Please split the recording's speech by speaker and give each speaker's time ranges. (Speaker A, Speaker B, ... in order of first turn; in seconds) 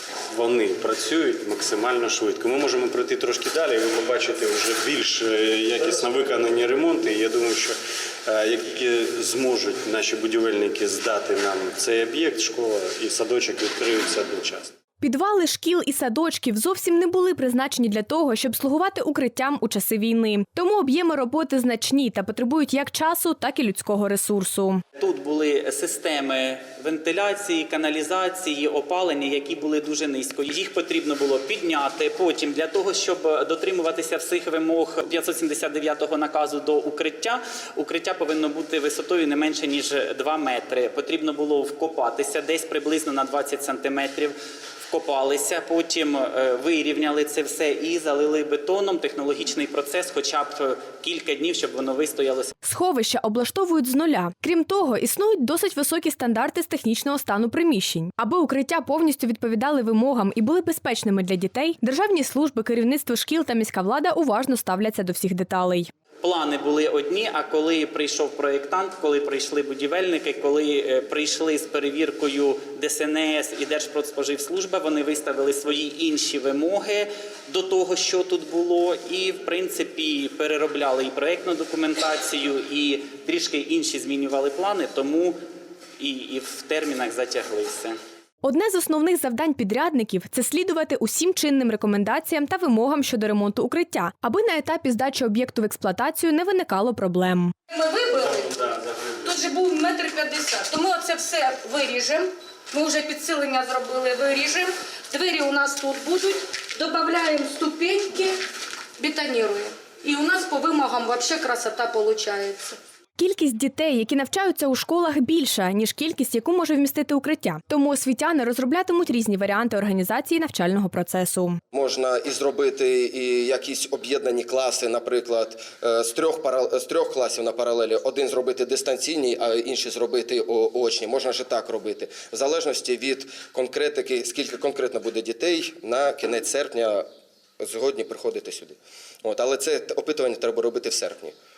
Speaker A: 0.3-14.7
Speaker B: 15.0-24.8, 52.6-65.9, 88.4-97.5, 113.2-121.6
Speaker C: 25.0-44.3, 44.9-52.5, 66.2-85.4, 86.0-88.0
Speaker D: 97.7-108.4, 109.0-112.8
Speaker E: 121.7-137.1, 137.6-141.3